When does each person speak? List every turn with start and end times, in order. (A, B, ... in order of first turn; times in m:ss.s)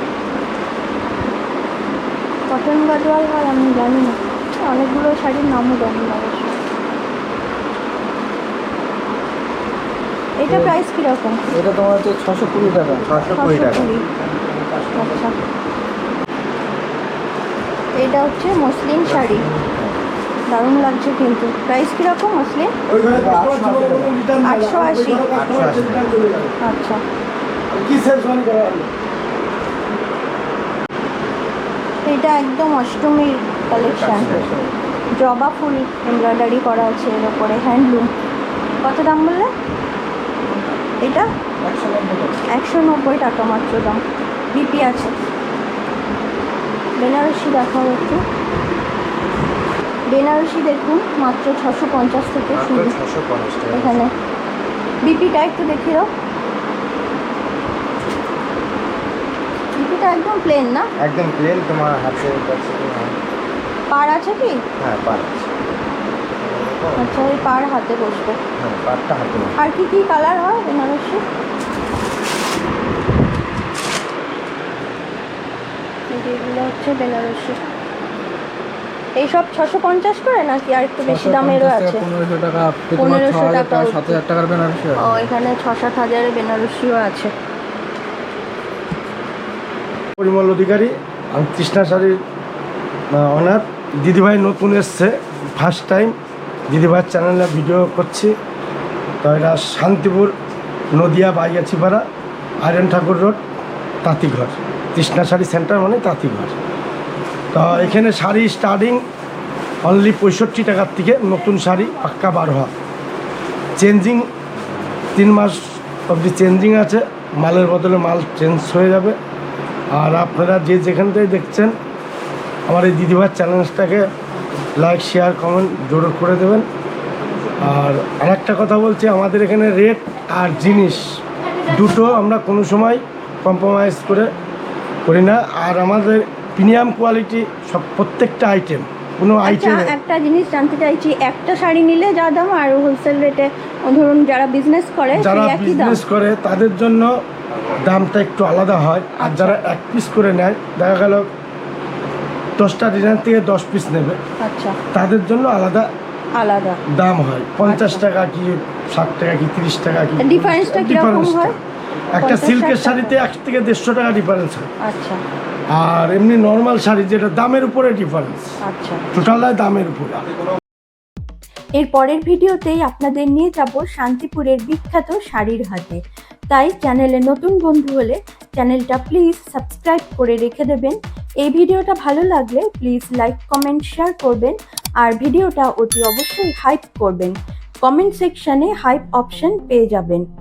0:02.5-0:06.6 A
0:10.4-0:11.4 A
0:10.5-0:10.8 B
0:11.5-0:13.1 B
0:13.1-0:13.9 C
0:13.4-0:14.0 A
0:14.4-0:14.8 B
0:15.0-0:15.3 A
0:18.0-0:19.5 A
0:19.1-0:20.0 C
0:20.5-0:22.7 A
0:22.9-0:26.6 D
0:23.1-0:24.2 B
0:24.4-0:25.3 A
0:25.3-0:26.1 C
0:26.6-0:27.0 A
0:27.7-0:28.9 D
0:32.0-0:34.4 A
0:33.8-0:34.6 C
0:33.8-0:34.8 B
0:35.2-0:38.1 A
0:38.8-0:39.5 A
0:41.6-0:42.4 B
0:42.5-0:44.0 A
0:44.5-0:45.1 A
0:47.0-0:48.2 A
0:50.1-0:53.0 A
0:52.6-0:54.0 C
0:53.7-0:54.1 A
0:55.0-0:56.1 A
0:59.8-1:00.9 A
1:01.0-1:03.2 C
1:03.9-1:04.6 A
1:04.8-1:05.5 C
1:06.4-1:07.3 C
1:07.0-1:08.4 A
1:08.6-1:09.6 C
1:09.6-1:11.2 A
1:16.1-1:17.6 A
1:19.2-1:22.0 A
1:21.0-1:25.3 B
1:23.0-1:24.2 A
1:25.0-1:27.3 A
1:30.2-1:32.2 D
1:33.1-1:36.2 D
1:36.7-1:38.3 D
1:39.2-1:40.3 D
1:40.9-1:42.0 D
1:42.6-1:43.4 D
1:44.0-1:46.6 D
1:47.5-1:49.0 D
1:49.8-1:52.7 D
1:53.8-1:54.3 D
1:55.1-1:59.2 D
2:00.0-2:01.8 D
2:02.7-2:04.1 D
2:04.8-2:06.7 D
2:07.6-2:11.0 D
2:11.7-2:14.3 D
2:15.1-2:19.9 D
2:19.4-2:26.0 A
2:25.1-2:27.1 D
2:27.8-2:31.3 D
2:29.2-2:29.6 A
2:32.6-2:34.2 D
2:34.4-2:34.8 A
2:34.9-2:35.9 D
2:36.4-2:36.8 A
2:36.9-2:41.6 D
2:37.6-2:38.0 A
2:40.2-2:41.6 A
2:42.1-2:44.7 D
2:42.2-2:43.2 A
2:44.8-2:45.2 A
2:45.7-2:48.5 D
2:48.6-2:49.1 A
2:49.1-2:50.3 D
2:51.8-2:56.0 A
2:56.5-3:10.2 A